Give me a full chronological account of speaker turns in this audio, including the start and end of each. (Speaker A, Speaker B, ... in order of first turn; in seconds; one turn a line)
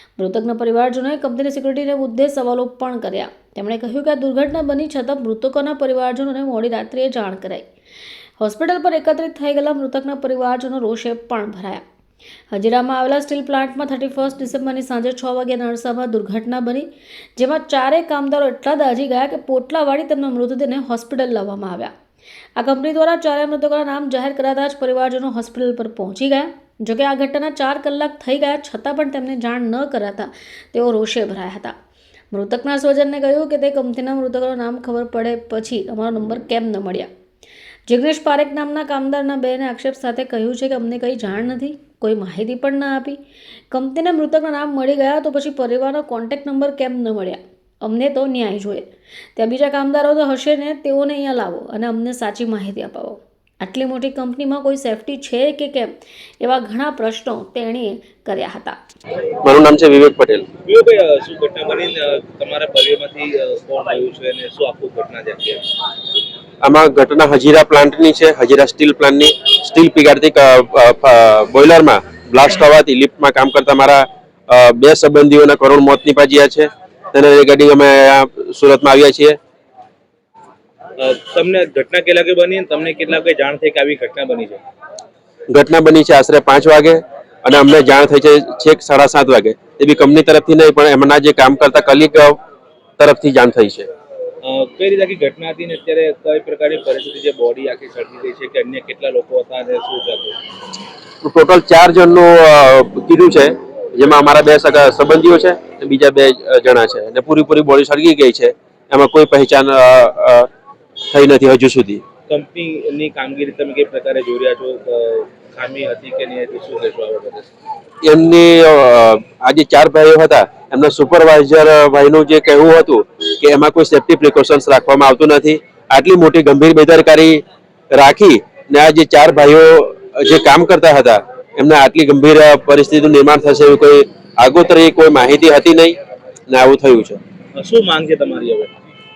Speaker A: 0.2-7.7
Speaker A: 8.4-11.8
Speaker A: 12.5-21.9
Speaker A: 22.6-31.7
Speaker A: 32.3-37.1
Speaker A: 37.9-43.2
Speaker A: 43.7-58.8
Speaker B: 59.4-60.5
Speaker C: 60.6-65.7
Speaker B: 66.6-79.4
Speaker C: 81.0-84.6
Speaker B: 85.5-92.4
Speaker B: 93.0-93.9
Speaker C: 94.4-100.3
Speaker B: 101.2-110.5
Speaker B: 111.1-112.0
Speaker C: 112.3-117.5
Speaker B: 118.0-136.0
Speaker B: 136.5-137.2
Speaker C: 137.5-138.7